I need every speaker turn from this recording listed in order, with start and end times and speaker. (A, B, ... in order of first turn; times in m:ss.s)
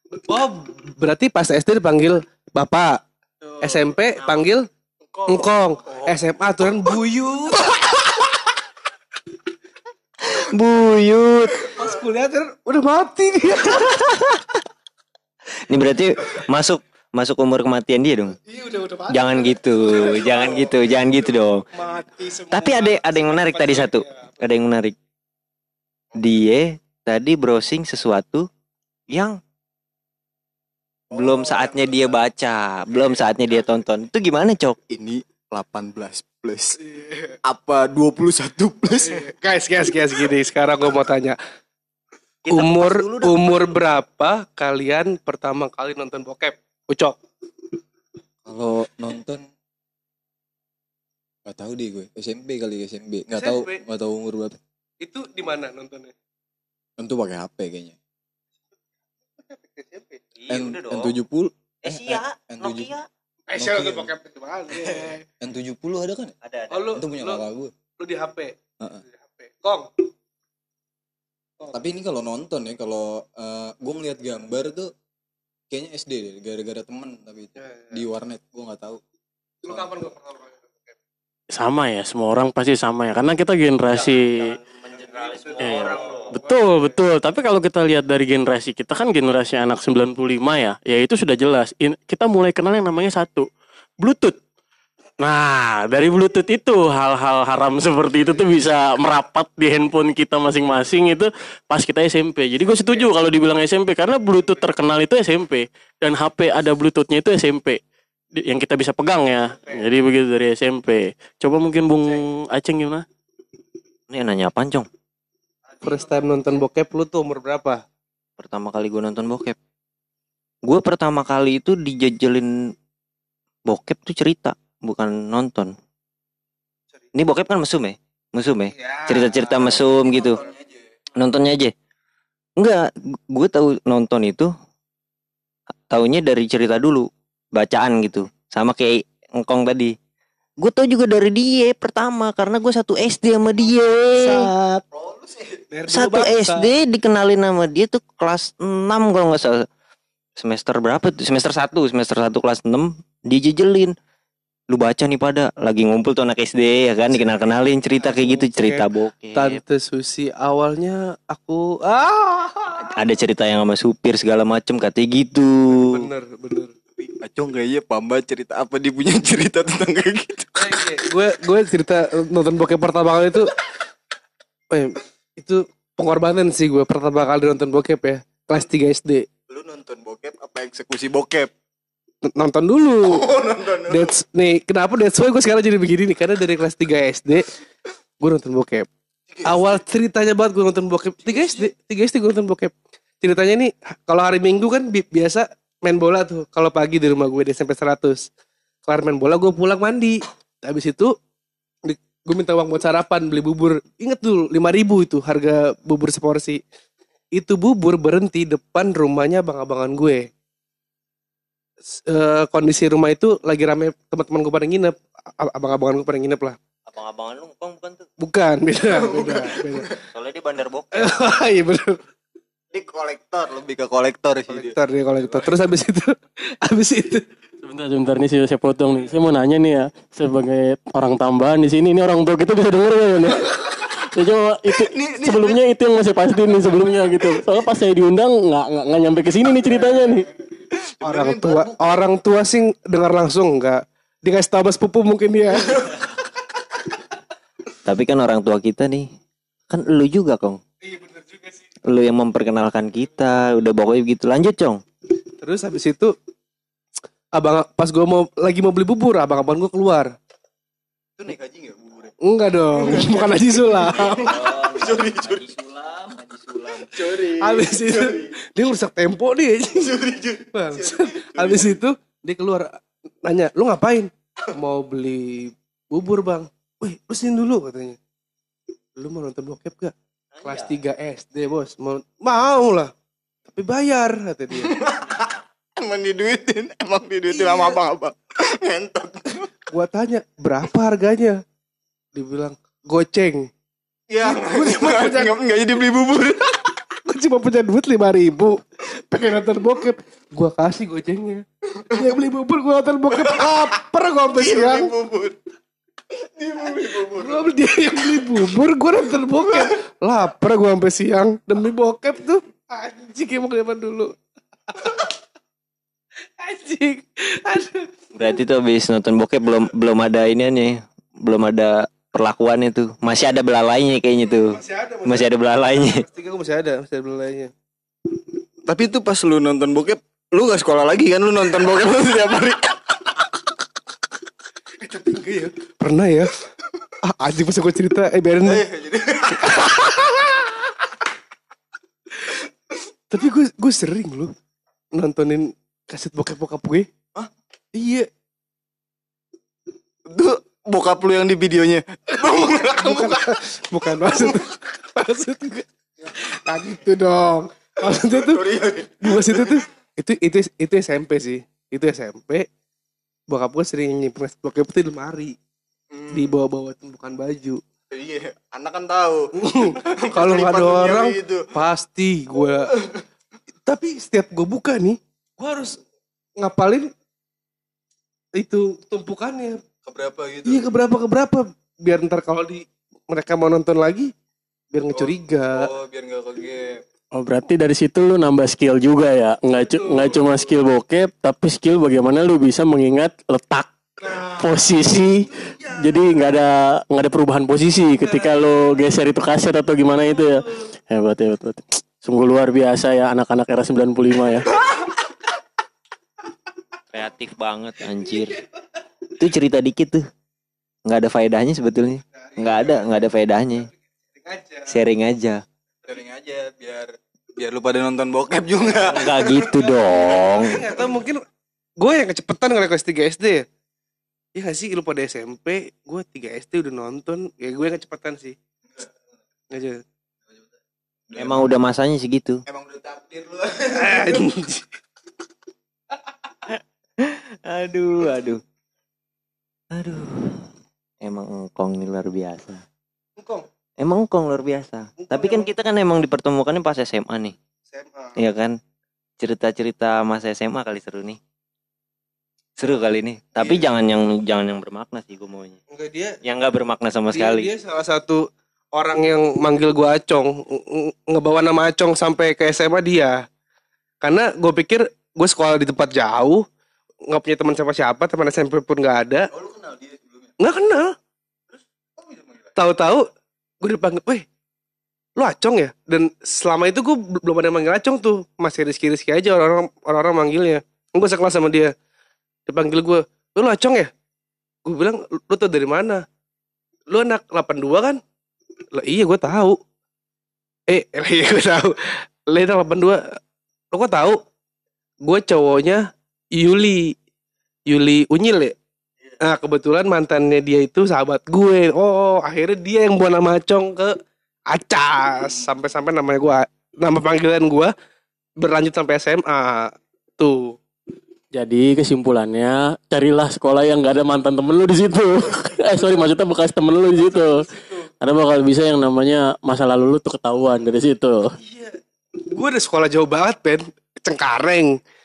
0:00.2-0:03.0 A
0:03.6-0:04.7 A
0:05.3-0:07.9 A
0:10.2-0:11.7 B
0:11.6-0:14.1 A
0:13.8-0:14.4 B
0:15.7-0:18.4 B
0:18.5-0:24.4 A
0:19.1-0:21.6 B
0:22.5-0:24.9 B
0:26.1-0:28.5 B
0:29.1-0:29.4 B
0:31.1-0:34.8 B
0:31.1-0:31.9 C
0:34.9-0:36.8 C
0:36.8-0:37.4 A
0:37.4-0:39.3 C
0:39.0-0:41.4 A
0:42.4-0:43.7 B
0:42.5-0:47.2 A
0:48.4-0:49.4 C
0:51.4-0:54.6 C
0:53.3-0:53.8 A
0:55.0-0:56.1 A
0:57.0-0:58.0 C
0:59.5-1:00.2 A
1:00.4-1:01.1 B
1:00.5-1:02.9 C
1:01.8-1:03.0 B
1:03.5-1:05.2 A
1:03.6-1:04.1 C
1:04.7-1:06.3 C
1:06.4-1:06.9 B
1:06.7-1:07.4 A
1:06.9-1:07.7 C
1:08.0-1:08.5 A
1:09.0-1:10.0 A
1:11.7-1:14.9 C
1:15.7-1:19.0 C
1:17.6-1:18.0 A
1:19.6-1:19.9 C
1:19.6-1:21.0 A
1:21.5-1:24.5 D
1:23.9-1:26.3 B
1:25.2-1:26.9 A
1:25.6-1:33.5 D
1:34.0-1:34.4 D
1:35.2-1:47.8 D
1:48.4-1:53.0 D
1:54.1-1:54.9 B
1:55.8-1:57.8 A
1:58.4-1:59.6 B
2:00.6-2:02.5 B
2:03.7-2:05.7 B
2:07.1-2:10.4 B
2:09.0-2:10.8 C
2:11.2-2:11.7 B
2:12.6-2:14.5 B
2:15.9-2:19.9 B
2:20.6-2:24.5 B
2:24.2-2:24.8 A
2:24.9-2:25.6 C
2:25.7-2:26.7 A
2:25.9-2:29.6 B
2:30.4-2:33.9 B
2:34.7-2:39.6 B
2:37.1-2:37.4 A
2:38.0-2:42.9 A
2:42.8-2:46.1 B
2:45.7-2:46.7 A
2:47.0-2:50.9 C
2:50.6-2:53.5 A
2:54.7-2:59.3 A
2:59.5-3:01.5 C
3:02.2-3:03.2 A
3:03.0-3:04.1 C
3:03.9-3:07.6 A
3:08.2-3:08.9 A
3:09.3-3:09.8 C
3:09.4-3:18.3 A
3:11.2-3:11.7 C
3:18.8-3:21.1 A
3:21.8-3:26.6 A
3:27.3-3:30.3 A
3:31.9-3:36.6 A
3:36.9-3:38.1 B
3:38.2-3:39.9 A
3:38.9-3:40.0 C
3:40.1-3:41.2 B
3:40.9-3:42.0 A
3:42.7-3:44.7 C
3:44.5-3:47.2 A
3:47.6-4:00.3 D
3:54.7-3:55.6 C
4:00.8-4:02.1 C
4:01.0-4:06.0 A
4:07.8-4:09.1 B
4:09.7-4:10.6 B
4:10.8-4:11.7 A
4:11.8-4:14.8 B
4:15.4-4:16.1 A
4:17.3-4:20.1 A
4:21.2-4:22.1 C
4:22.2-4:24.5 A
4:22.7-4:28.3 C
4:24.0-4:25.5 B
4:26.9-4:29.9 A
4:29.7-4:31.8 C
4:30.5-4:38.0 A
4:39.0-4:42.9 A
4:40.4-4:40.7 B
4:43.5-4:44.7 A
4:44.5-4:49.5 C
4:47.3-4:47.8 A
4:49.7-4:51.4 A
4:52.1-4:53.5 A
4:54.1-4:56.6 C
4:54.2-4:55.3 A
4:57.0-5:04.9 A
5:01.8-5:02.1 C
5:03.1-5:03.7 C
5:04.3-5:05.4 C
5:06.1-5:08.3 C
5:07.1-5:14.1 A
5:09.4-5:09.8 C
5:14.7-5:15.1 A
5:16.4-5:17.9 A
5:18.1-5:26.0 B
5:24.4-5:27.5 A
5:28.6-5:33.3 C
5:34.8-5:36.4 A
5:37.0-5:38.6 A
5:38.4-5:39.7 C
5:39.4-5:40.6 A
5:43.1-5:44.3 A
5:44.9-5:46.9 A
5:47.7-5:48.1 A
5:50.1-5:53.4 C
5:52.2-5:58.4 A
5:53.9-5:54.4 C
5:58.1-5:59.6 C
5:59.0-6:02.5 A
6:03.3-6:05.4 A
6:05.9-6:06.4 C
6:06.1-6:07.6 A
6:07.9-6:09.2 C
6:09.4-6:12.7 A
6:09.7-6:11.5 C
6:12.4-6:13.0 C
6:13.6-6:15.8 A
6:16.4-6:16.9 A
6:18.4-6:19.6 A
6:19.8-6:20.6 C
6:20.4-6:24.1 A
6:24.7-6:25.7 A
6:24.9-6:26.8 C
6:27.1-6:44.5 D
6:29.8-6:30.3 A
6:34.0-6:36.2 A
6:37.9-6:38.8 A
6:40.0-6:40.6 A
6:46.9-6:48.4 B
6:48.1-6:48.4 A
6:49.2-6:50.0 B
6:50.8-6:53.7 B
6:52.2-6:53.0 A
6:54.1-6:54.7 A
6:54.7-6:55.4 B
6:55.8-6:59.5 C
6:58.9-7:00.6 B
6:59.1-7:01.2 A
7:01.8-7:03.4 A
7:04.3-7:08.4 A
7:09.5-7:09.8 A
7:11.1-7:11.5 C
7:11.2-7:12.4 B
7:12.5-7:14.3 C
7:13.7-7:14.7 A
7:17.0-7:18.4 B
7:19.7-7:20.5 B
7:21.0-7:22.6 B
7:23.2-7:23.4 A
7:23.8-7:27.3 B
7:25.0-7:25.5 A
7:27.7-7:28.2 A
7:28.2-7:28.5 B
7:29.2-7:31.2 B
7:32.6-7:35.6 B
7:35.7-7:36.2 A
7:36.2-7:37.5 B
7:37.1-7:43.2 A
7:44.0-7:46.4 A
7:47.1-7:49.3 A
7:49.3-7:50.3 C
7:50.4-7:50.9 A
7:52.0-7:52.5 C
7:52.5-7:53.0 A
7:53.6-7:54.2 A
7:55.2-8:01.7 A
8:02.5-8:03.9 A
8:04.6-8:06.0 A
8:06.9-8:08.0 A
8:08.7-8:09.6 A
8:10.7-8:13.2 A
8:13.7-8:14.2 A
8:15.0-8:17.0 A
8:17.7-8:18.5 A
8:19.2-8:24.0 A
8:24.5-8:27.7 A
8:28.4-8:30.6 A
8:31.3-8:37.5 D
8:37.1-8:37.8 A
8:38.0-8:41.3 D
8:41.4-8:44.8 A